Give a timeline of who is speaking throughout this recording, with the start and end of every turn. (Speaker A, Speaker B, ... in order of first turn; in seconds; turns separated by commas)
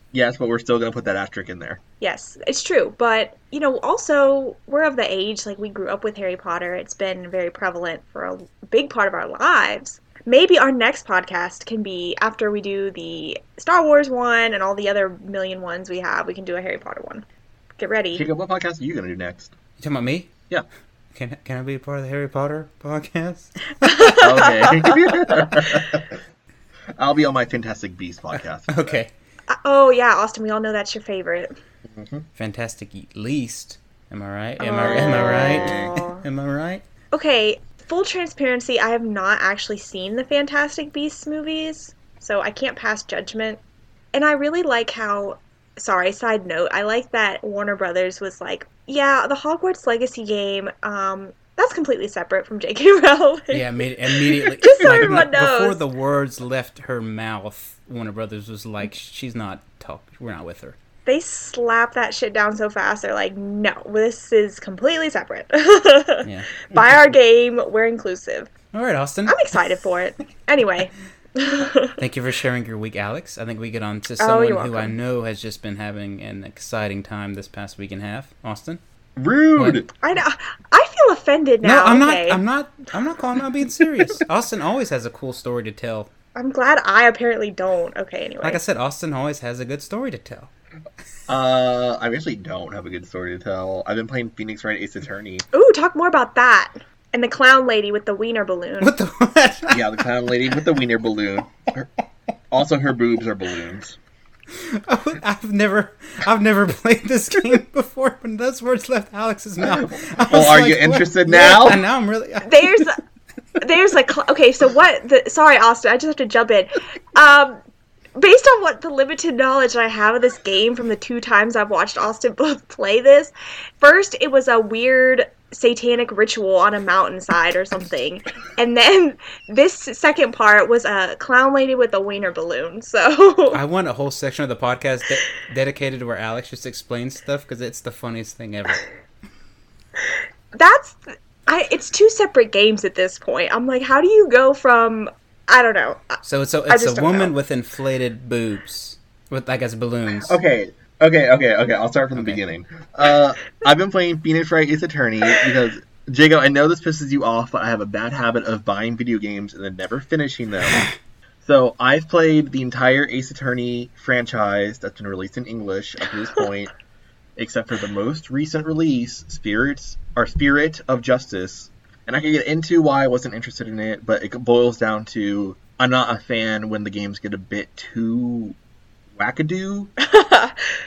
Speaker A: 0.1-1.8, Speaker B: 2.0-17.2, Speaker B: 17.8-18.2, Speaker A: 18.1-19.5, Speaker C: 19.8-20.3, Speaker C: 21.1-24.3, Speaker B: 23.8-25.0, Speaker A: 24.2-26.2, Speaker A: 26.9-29.0, Speaker C: 28.7-29.1, Speaker B: 29.5-31.6, Speaker A: 31.9-32.2, Speaker C: 32.4-36.8, Speaker B: 34.6-36.2, Speaker A: 34.8-36.0, Speaker B: 37.1-43.6, Speaker B: 44.1-55.8, Speaker C: 53.5-60.8, Speaker B: 61.0-68.5, Speaker C: 66.2-66.7, Speaker C: 68.7-69.4, Speaker B: 69.2-72.0, Speaker C: 72.0-78.8, Speaker B: 74.2-74.9, Speaker A: 79.2-79.9, Speaker C: 79.5-79.8, Speaker B: 80.0-82.4, Speaker C: 81.6-86.1, Speaker B: 86.3-88.6, Speaker C: 88.4-90.5, Speaker A: 91.3-95.4, Speaker B: 95.5-98.9, Speaker C: 98.8-99.9, Speaker A: 99.7-101.9, Speaker A: 102.5-104.0, Speaker C: 104.5-112.9, Speaker A: 109.6-111.8, Speaker B: 112.4-113.0, Speaker B: 113.6-117.6, Speaker B: 118.2-133.6, Speaker C: 133.5-138.9, Speaker B: 140.5-147.3, Speaker C: 146.2-150.4, Speaker A: 150.1-160.8, Speaker C: 152.1-152.4, Speaker A: 161.4-166.7, Speaker A: 167.4-178.6, Speaker A: 179.1-179.9, Speaker B: 180.0-180.6